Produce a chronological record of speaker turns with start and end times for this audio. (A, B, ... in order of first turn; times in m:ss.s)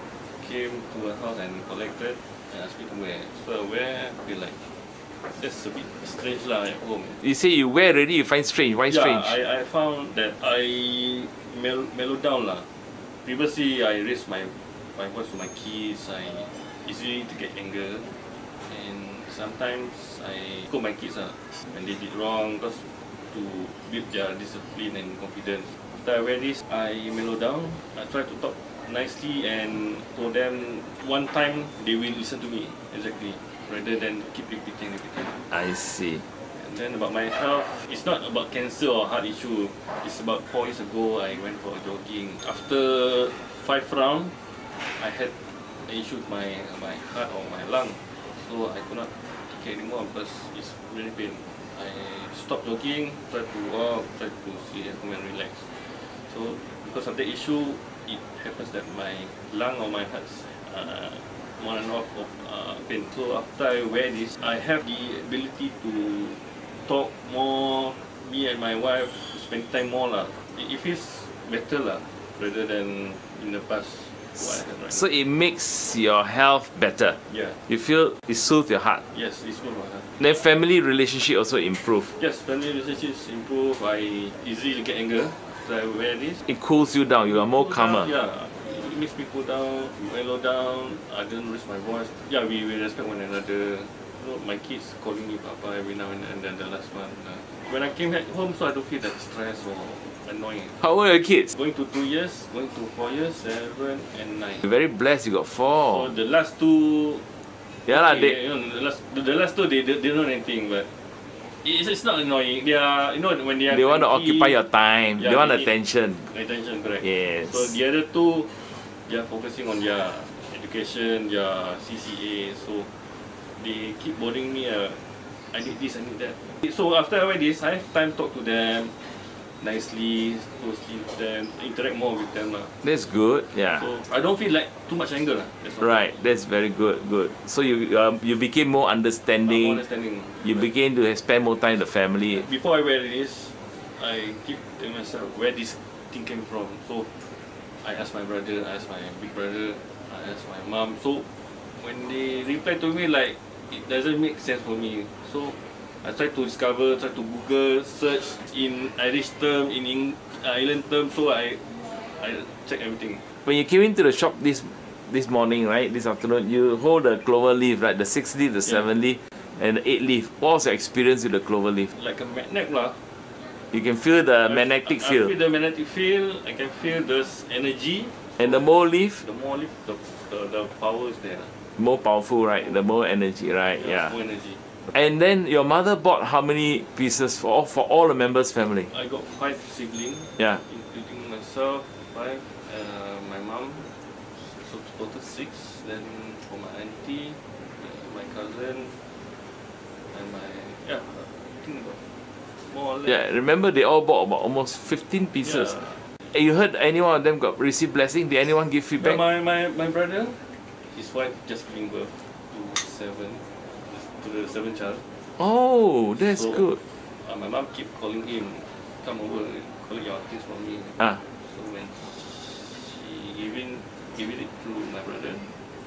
0:00.3-0:04.7 A
0:05.2-0:07.2 A
0:07.2-0:09.4 B
0:08.9-0:35.4 A
0:35.5-0:36.2 B
0:36.5-1:15.1 A
1:14.9-1:17.2 B
1:17.2-1:17.6 A
1:17.7-1:19.0 B
1:19.1-1:20.2 A
1:20.2-1:22.2 B
1:22.2-1:26.4 A
1:26.5-1:28.1 B
1:27.2-1:40.8 A
1:40.8-1:41.5 B
1:41.5-1:44.7 A
1:44.6-1:46.1 B
1:45.7-1:47.3 A
1:47.8-1:50.9 A
1:47.9-1:48.4 B
1:51.6-2:03.0 A
1:53.7-1:56.3 B
1:57.0-1:57.8 B
2:03.5-2:12.8 A
2:12.8-2:13.8 B
2:13.5-2:16.1 A
2:15.8-2:19.8 B
2:19.4-2:20.7 A
2:20.4-2:22.4 B
2:22.3-2:27.2 A
2:27.8-2:43.2 A
2:43.4-2:51.9 B
2:48.6-2:49.0 A
2:51.9-2:53.1 A
2:53.7-2:55.3 B
2:54.4-3:01.6 A
2:58.4-2:59.2 B
3:01.8-3:04.1 B
3:03.8-3:04.7 A
3:04.9-3:08.9 B
3:08.8-3:19.0 A
3:20.1-3:23.2 A
3:23.0-3:25.8 B
3:25.4-3:26.1 A
3:26.3-3:29.2 B
3:29.0-3:35.0 A
3:35.4-3:36.8 B
3:36.2-3:45.6 A